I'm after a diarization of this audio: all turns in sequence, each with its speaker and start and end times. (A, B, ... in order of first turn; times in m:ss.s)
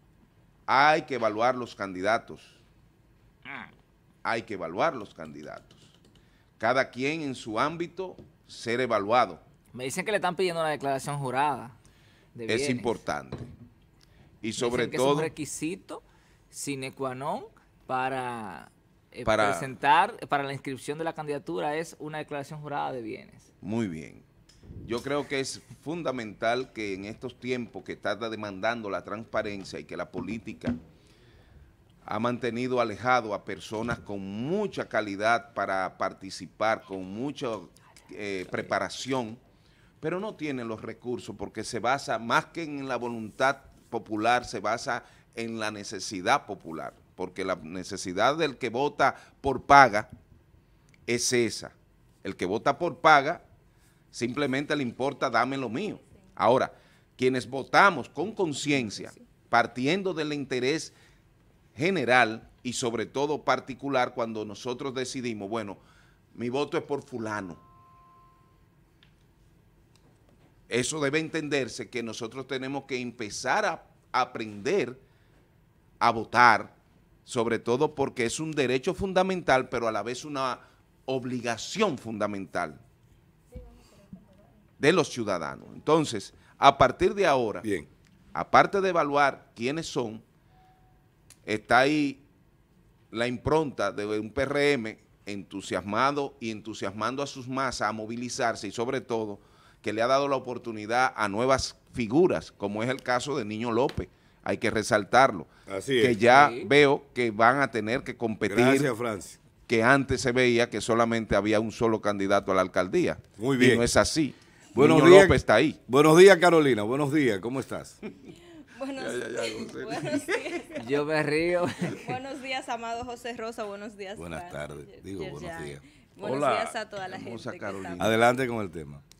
0:00.7-0:02.6 A
0:04.2-0:05.9 A
0:06.6-0:09.4 A
0:09.7-0:11.8 B
0:12.4-0:13.0 B
0:12.5-0:13.5 A
0:14.4-0:15.3 A
0:14.6-0:23.5 B
0:19.2-0:19.7 A
0:23.6-0:24.2 A
0:24.8-0:30.8 A
0:32.1-0:39.4 A
0:40.0-0:50.1 A
0:51.1-0:53.4 A
0:54.1-1:00.9 A
1:01.8-1:05.8 A
1:06.3-1:07.6 A
1:10.7-1:15.0 A
1:16.0-1:16.8 A
1:17.3-1:22.8 A
1:24.8-1:27.7 A
1:27.6-1:27.9 C
1:28.4-1:30.2 A
1:31.5-1:32.2 A
1:33.1-1:48.9 A
1:45.7-1:46.2 C
1:46.3-1:46.7 B
1:48.5-1:49.4 C
1:49.7-1:55.8 A
1:53.4-1:53.9 C
1:54.8-1:58.0 C
1:58.8-2:01.0 D
1:59.0-2:00.4 A
2:00.8-2:02.2 B
2:01.9-2:08.1 D
2:04.2-2:06.8 C
2:07.0-2:08.2 A
2:08.0-2:09.0 C